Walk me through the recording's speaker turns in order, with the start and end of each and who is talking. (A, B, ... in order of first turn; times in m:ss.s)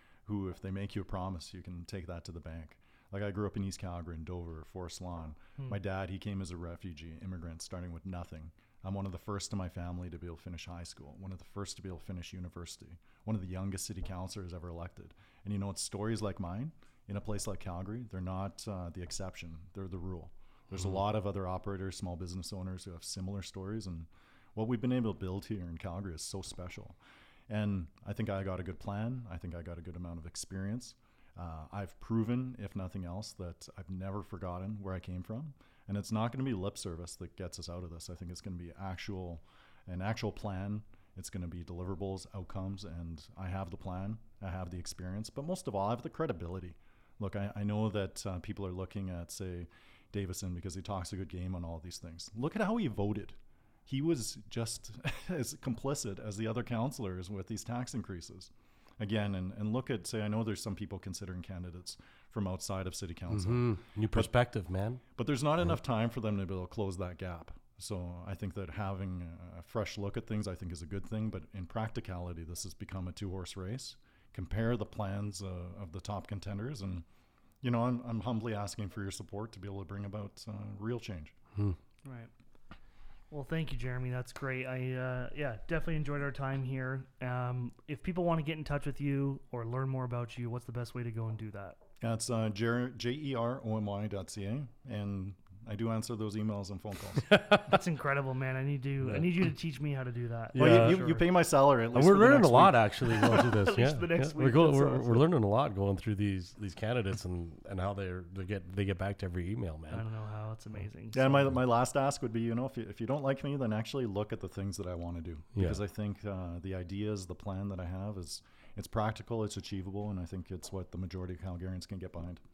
0:00.2-1:04.3 A
1:03.3-1:05.0 B
1:05.1-1:17.0 A
1:17.6-1:21.3 A
1:22.0-1:22.3 C
1:23.3-1:31.8 C
1:32.0-1:37.2 A
1:37.2-1:37.8 B
1:37.6-1:41.2 C
1:39.0-1:39.3 B
1:40.6-1:41.0 B
1:40.6-1:42.8 A
1:41.9-1:50.0 B
1:43.1-1:45.2 C
1:49.9-1:51.6 C
1:51.1-2:02.4 A
1:55.5-1:55.8 B